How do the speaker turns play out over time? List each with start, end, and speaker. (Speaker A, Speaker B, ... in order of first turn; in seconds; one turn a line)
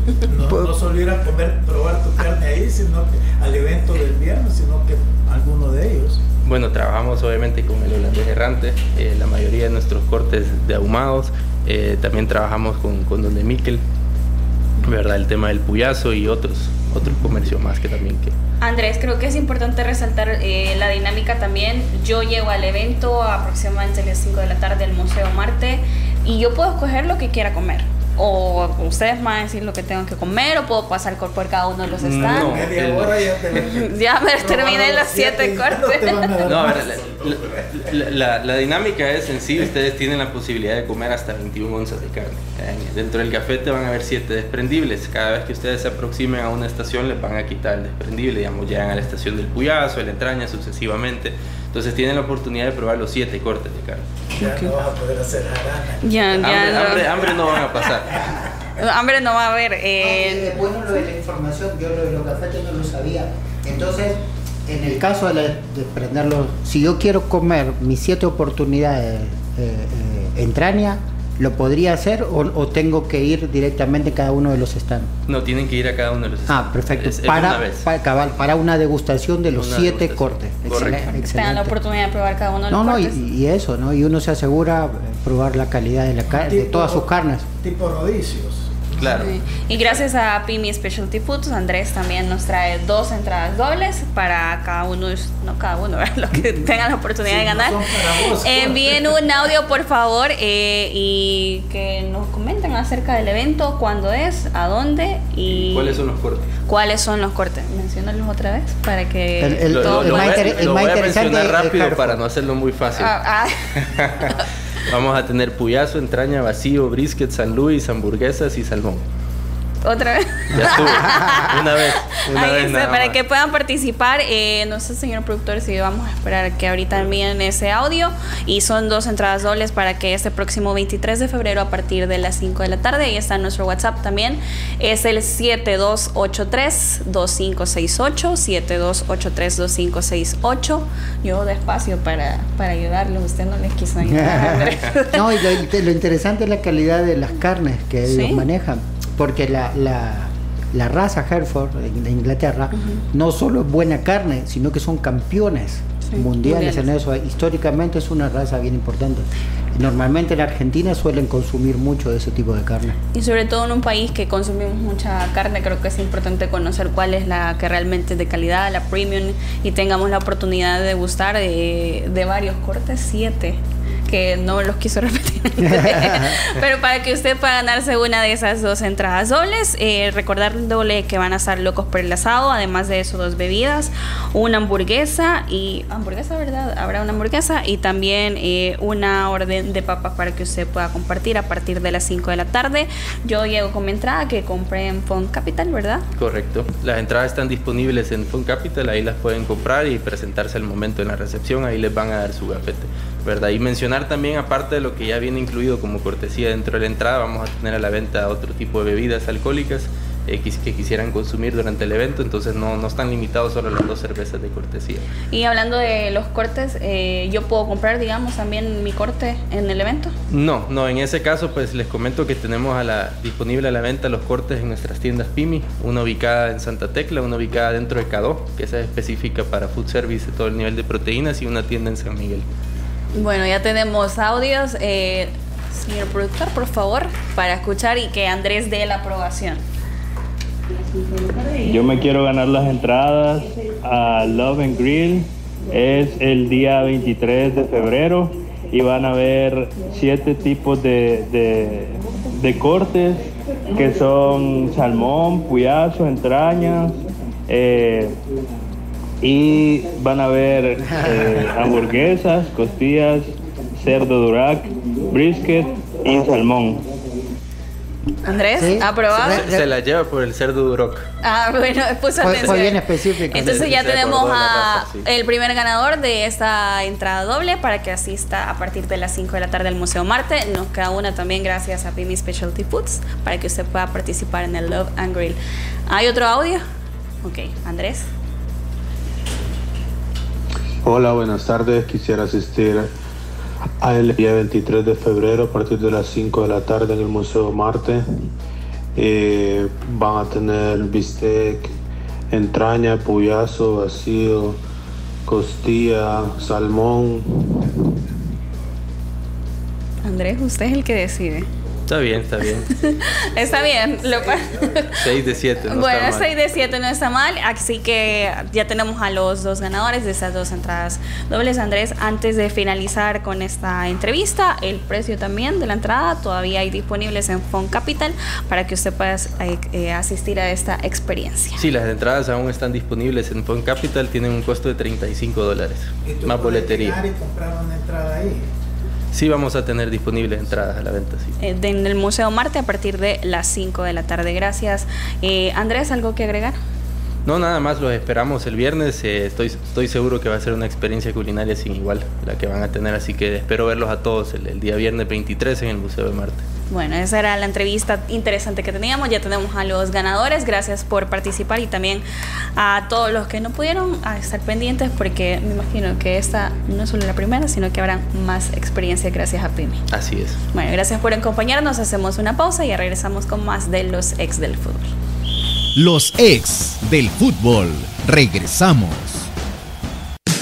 Speaker A: 0.2-6.2
Speaker B: 0.5-0.7
Speaker C: 6.5-13.8
Speaker C: 14.8-18.3
Speaker D: 18.6-32.7
Speaker C: 32.0-33.7
Speaker A: 32.1-37.9
Speaker D: 33.5-36.3
Speaker C: 36.4-54.1
Speaker A: 54.3-58.4
Speaker D: 54.4-54.8
Speaker D: 56.0-57.3
Speaker C: 56.4-58.2
Speaker D: 58.8-60.7
Speaker B: 60.0-75.1
Speaker C: 75.3-77.9
Speaker B: 76.5-81.8
Speaker C: 79.5-81.2
Speaker D: 81.1-83.2
Speaker B: 82.7-87.5
Speaker A: 86.3-89.4
Speaker C: 89.0-90.0
Speaker D: 89.1-106.0
Speaker A: 97.2-99.4
Speaker C: 105.5-106.5
Speaker D: 106.7-110.8
Speaker B: 109.4-112.2
Speaker C: 109.7-113.1
Speaker D: 113.0-113.8
Speaker C: 113.8-114.3
Speaker C: 114.9-119.0
Speaker D: 119.8-145.6
Speaker C: 120.5-123.2
Speaker B: 144.0-163.0
Speaker D: 148.1-148.5
Speaker D: 152.8-153.0
Speaker D: 156.1-156.9
Speaker D: 163.1-196.1
Speaker B: 175.6-176.4
Speaker C: 196.2-215.1
Speaker D: 215.3-220.1
Speaker C: 220.3-232.4
Speaker D: 233.1-239.6
Speaker E: 241.6-258.2
Speaker E: 259.2-263.3
Speaker E: 263.8-266.8
Speaker D: 268.2-269.5
Speaker B: 268.6-269.7
Speaker C: 269.1-271.1
Speaker D: 271.2-286.6
Speaker B: 272.2-273.7
Speaker C: 272.2-272.7
Speaker C: 273.3-275.1
Speaker D: 287.2-288.1
Speaker F: 290.8-292.9
Speaker F: 293.8-298.2
Speaker F: 299.0-301.7
Speaker F: 302.3-304.6
Speaker F: 305.3-307.8
Speaker D: 310.0-311.5
Speaker C: 311.9-312.7
Speaker D: 312.6-315.1
Speaker A: 314.6-314.9
Speaker C: 314.9-316.3
Speaker D: 315.6-331.6
Speaker C: 331.6-337.0
Speaker A: 336.1-338.5
Speaker C: 339.1-341.4
Speaker D: 341.4-346.6
Speaker C: 347.3-356.4
Speaker D: 356.7-362.0
Speaker D: 362.6-369.8
Speaker C: 369.9-370.4
Speaker D: 370.5-374.9
Speaker G: 375.8-379.3